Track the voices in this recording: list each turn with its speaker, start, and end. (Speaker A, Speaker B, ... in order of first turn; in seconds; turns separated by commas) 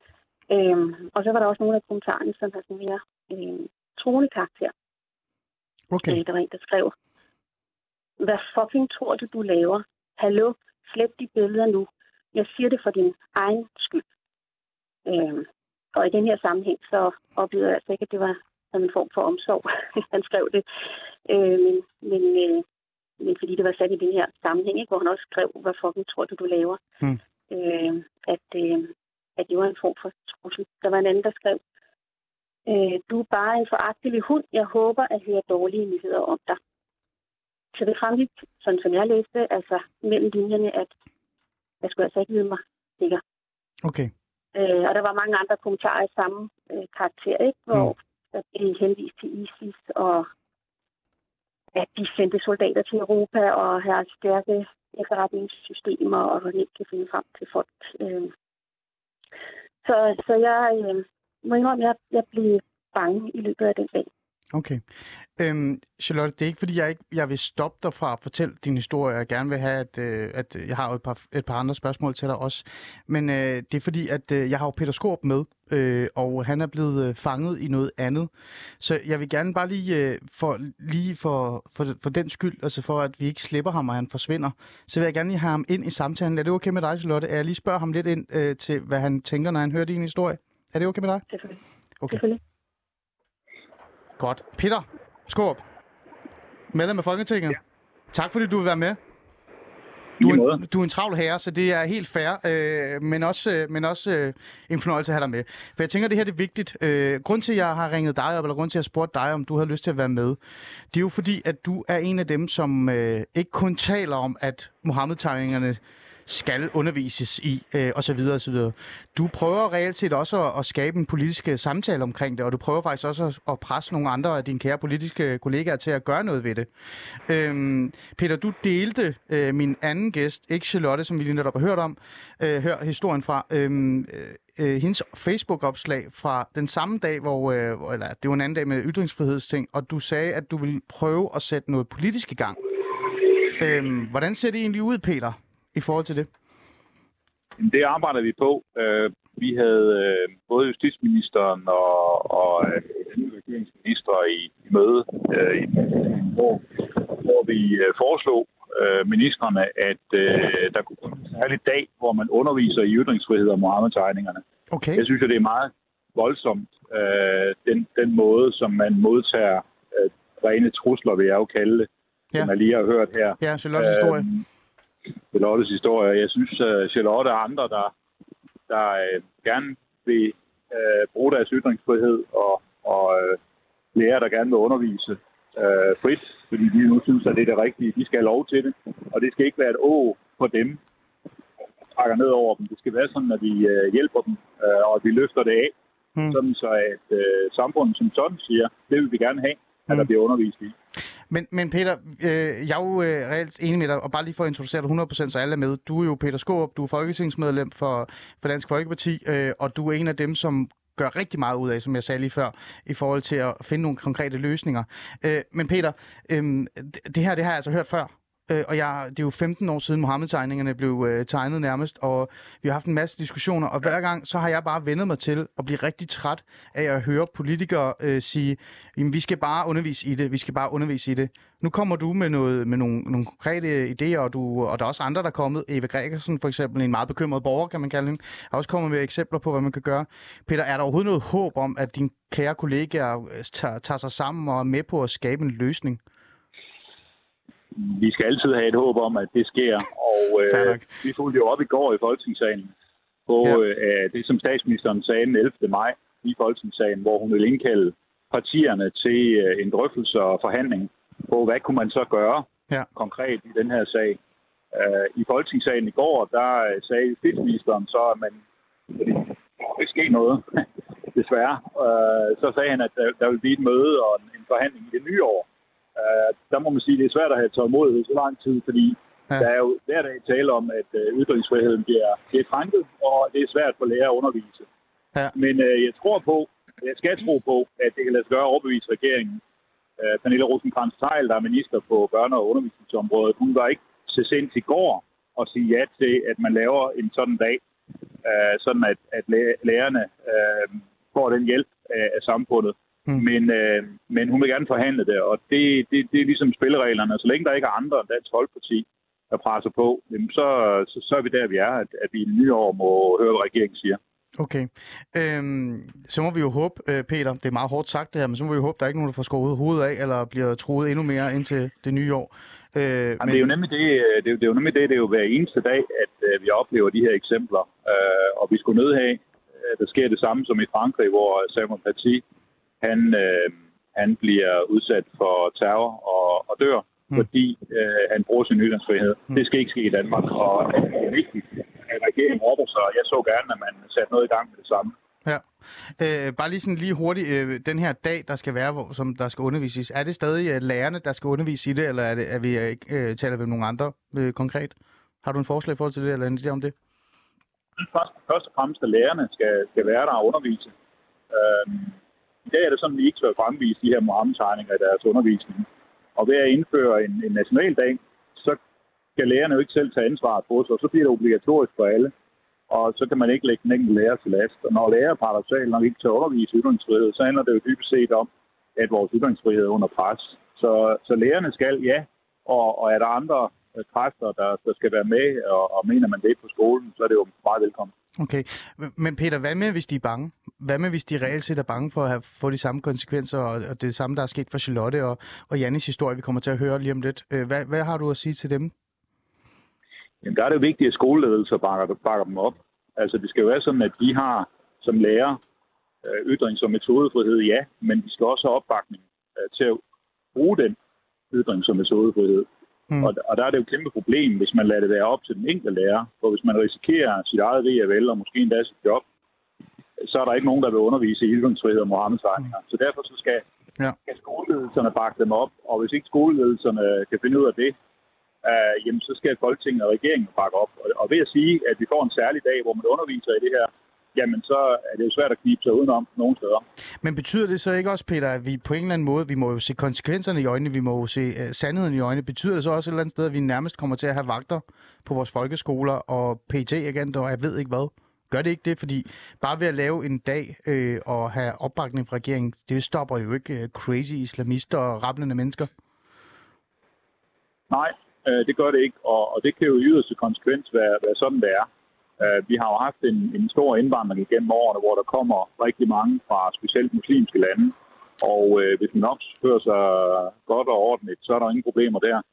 Speaker A: 0.5-4.7, Speaker B: 5.9-6.2, Speaker A: 6.0-7.0, Speaker A: 8.2-14.0, Speaker A: 15.1-20.6, Speaker A: 21.3-22.6, Speaker A: 23.2-26.8, Speaker A: 27.5-31.6, Speaker A: 32.7-36.6, Speaker A: 37.7-40.9, Speaker A: 41.8-43.2, Speaker B: 43.8-44.1, Speaker A: 44.5-50.3, Speaker A: 51.8-58.3, Speaker A: 59.8-64.1, Speaker B: 64.5-64.8, Speaker B: 65.4-91.2, Speaker A: 91.3-92.4, Speaker B: 94.2-95.6, Speaker B: 96.7-97.6, Speaker B: 98.1-99.0, Speaker C: 100.2-100.6, Speaker B: 100.2-110.4, Speaker B: 110.9-142.6, Speaker B: 143.5-146.3, Speaker C: 147.6-164.4, Speaker B: 164.7-165.1, Speaker C: 165.0-174.4, Speaker B: 173.4-174.3, Speaker C: 175.3-177.9, Speaker C: 178.7-183.4, Speaker C: 183.9-190.8, Speaker C: 191.9-195.7, Speaker C: 196.3-200.7, Speaker B: 201.3-246.0, Speaker C: 247.7-252.7, Speaker B: 250.5-250.8, Speaker C: 253.3-264.2, Speaker C: 264.7-284.7, Speaker C: 285.4-289.4, Speaker C: 290.0-297.6, Speaker C: 298.2-314.0, Speaker B: 314.4-323.5, Speaker C: 323.2-332.2, Speaker C: 332.8-344.9, Speaker B: 346.0-356.8, Speaker C: 357.8-360.7, Speaker C: 361.3-368.6, Speaker C: 369.2-372.1, Speaker C: 372.7-387.9, Speaker B: 388.2-398.7, Speaker C: 400.2-405.4, Speaker C: 406.0-409.8, Speaker C: 410.4-410.8, Speaker C: 411.3-412.5, Speaker C: 413.0-419.0, Speaker C: 420.0-423.4, Speaker C: 424.1-427.8, Speaker C: 428.4-436.6, Speaker B: 437.0-455.7, Speaker C: 457.7-461.7, Speaker C: 462.2-472.2